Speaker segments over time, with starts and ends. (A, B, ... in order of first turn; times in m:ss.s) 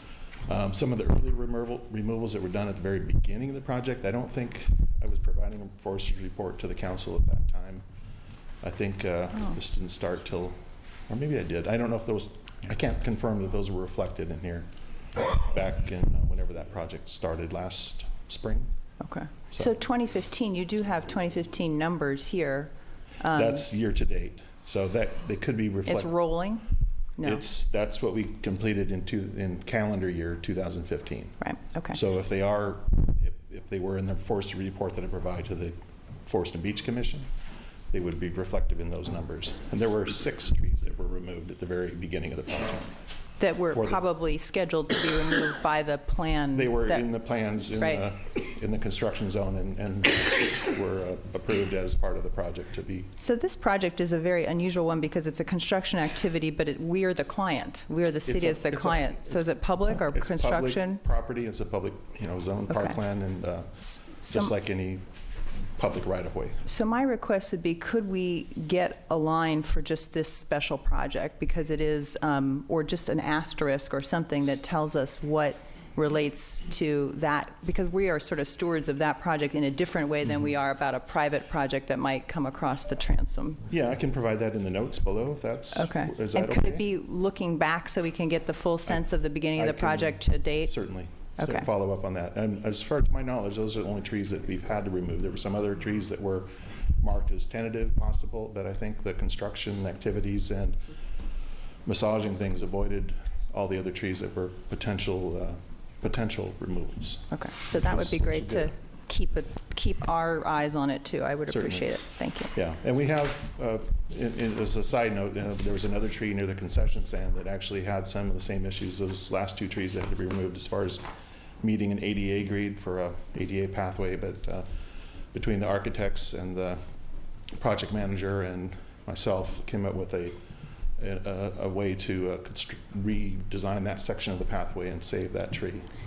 0:00.4-0:07.8 A
0:08.6-0:14.7 A
0:15.3-0:18.7 A
0:19.0-0:23.6 B
0:23.3-0:26.1 A
0:25.8-0:26.6 B
0:27.2-0:27.4 B
0:27.2-0:37.3 A
0:31.4-0:32.0 B
0:37.9-0:43.0 A
0:43.4-0:48.0 B
0:43.7-0:44.0 A
0:46.5-0:53.1 A
0:53.2-1:01.0 B
0:58.3-1:05.1 A
1:02.7-1:03.0 B
1:03.8-1:04.5 B
1:05.7-1:06.7 A
1:06.6-1:23.6 B
1:23.7-1:26.8 A
1:25.7-1:31.7 B
1:28.9-1:40.8 A
1:41.8-1:48.7 A
1:47.3-1:52.5 B
1:51.5-2:01.0 A
2:01.6-2:04.7 A
2:05.3-2:06.8 A
2:07.5-2:10.4 A
2:11.0-2:15.9 A